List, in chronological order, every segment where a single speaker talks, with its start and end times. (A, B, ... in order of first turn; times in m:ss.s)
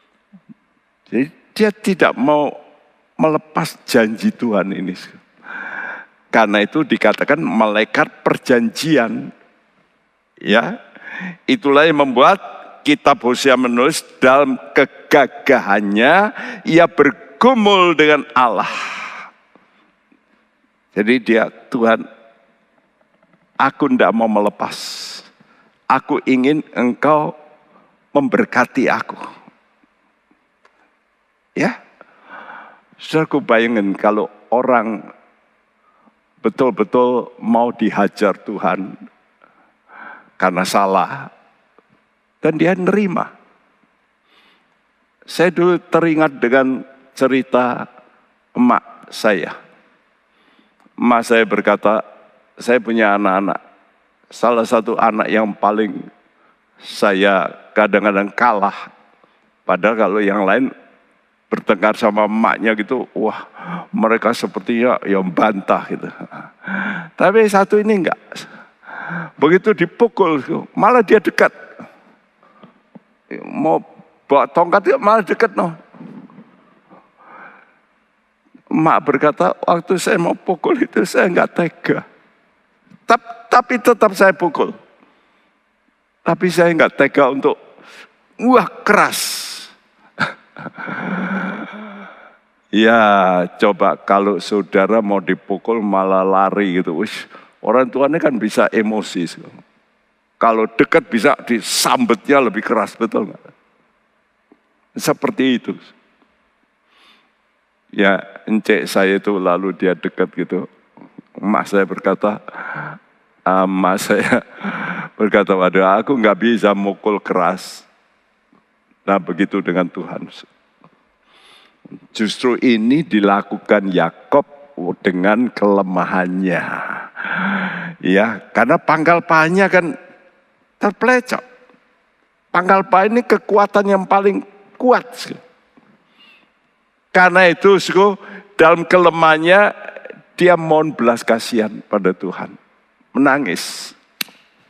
0:01.1-0:02.6 A
0:03.2-0:05.2 A
0:06.3-0:09.3 A
0:10.4-0:10.7 A
0:11.5-0:18.7 A
0:20.9-0:22.0 A
0:23.6-0:25.3 A
0:25.9-0:27.3 A
0:28.1-0:29.2 A
0:33.0-0:35.0 A
0:36.4-0:38.9 A
0:40.4-0:41.3 A
0:42.4-0:43.3 A
0:45.3-0:47.8 A
0:48.6-0:49.6 A
0:51.0-0:52.0 A
0:52.6-0:53.6 A
0:54.3-0:56.0 A
0:56.8-0:58.8 A
0:59.6-1:00.7 A
1:01.5-1:03.4 A
1:03.9-1:08.4 A
1:09.4-1:11.5 A
1:13.3-1:15.8 A
1:18.7-1:22.0 A
1:23.1-1:24.7 A
1:26.3-1:27.6 A
1:28.4-1:29.7 A
1:30.6-1:31.7 A
1:32.7-1:39.5 A
1:40.4-1:43.4 A
1:45.0-1:45.9 A
1:48.0-1:50.7 A
1:51.4-1:52.9 A
1:53.5-1:57.9 A
1:59.0-2:00.4 A
2:02.1-2:09.9 A
2:10.8-2:11.4 A
2:12.5-2:15.4 A
2:17.1-2:19.7 A
2:20.4-2:22.6 A
2:23.1-2:24.0 A